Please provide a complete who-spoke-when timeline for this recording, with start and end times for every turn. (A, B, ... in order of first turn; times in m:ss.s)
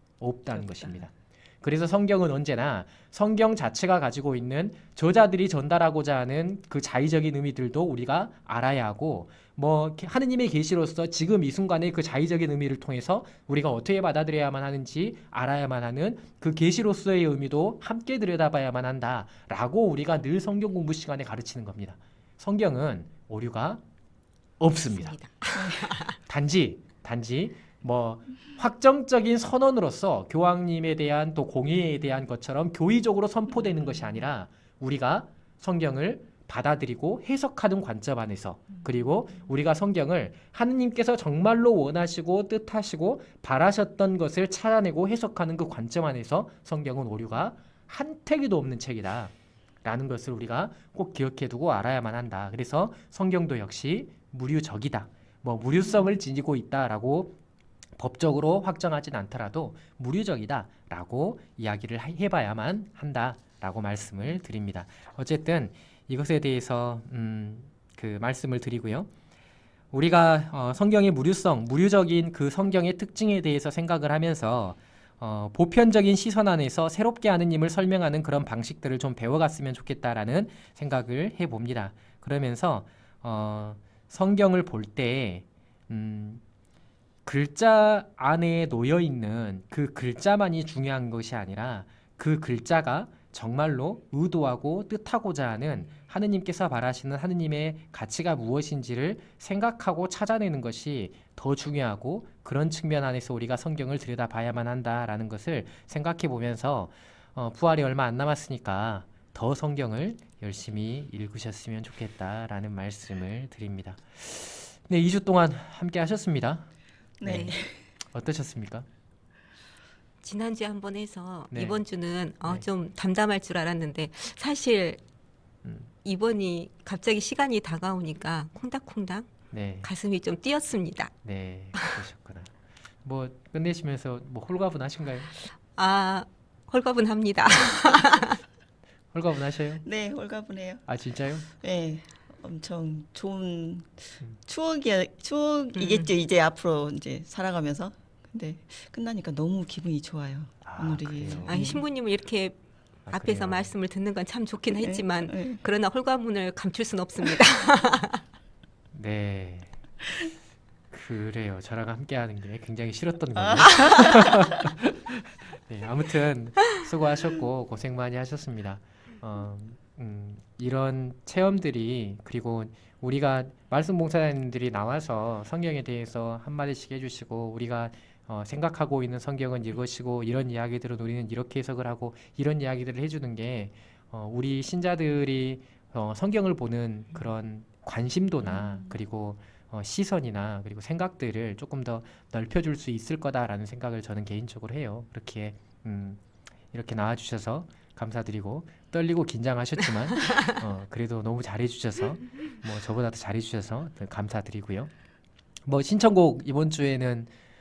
0:00.2-0:23.8 A
0:24.6-0:25.2 A
0:24.9-0:26.2 B
0:26.2-0:49.3 A
0:49.8-0:57.3 A
0:58.0-1:09.1 A
1:09.9-1:26.4 A
1:27.2-1:56.6 A
1:57.2-1:57.8 C
1:57.2-1:57.5 A
1:57.2-1:57.5 B
1:58.1-1:58.8 A
2:00.2-2:05.0 B
2:01.5-2:01.8 A
2:06.0-2:09.3 B
2:09.5-2:09.9 A
2:09.8-2:11.1 B
2:11.2-2:12.5 A
2:13.0-2:15.3 A
2:15.8-2:18.4 B
2:19.1-2:19.8 A
2:19.8-2:20.8 C
2:20.9-2:21.4 A
2:21.6-2:31.8 C
2:25.8-2:26.1 B
2:30.6-2:31.6 A
2:31.5-2:38.2 B
2:33.1-2:33.7 A
2:34.7-2:35.6 C
2:38.9-2:39.7 A
2:40.9-2:44.8 A
2:43.4-2:44.0 C
2:45.7-3:16.2 A
3:16.7-3:24.9 A
3:25.6-3:27.3 A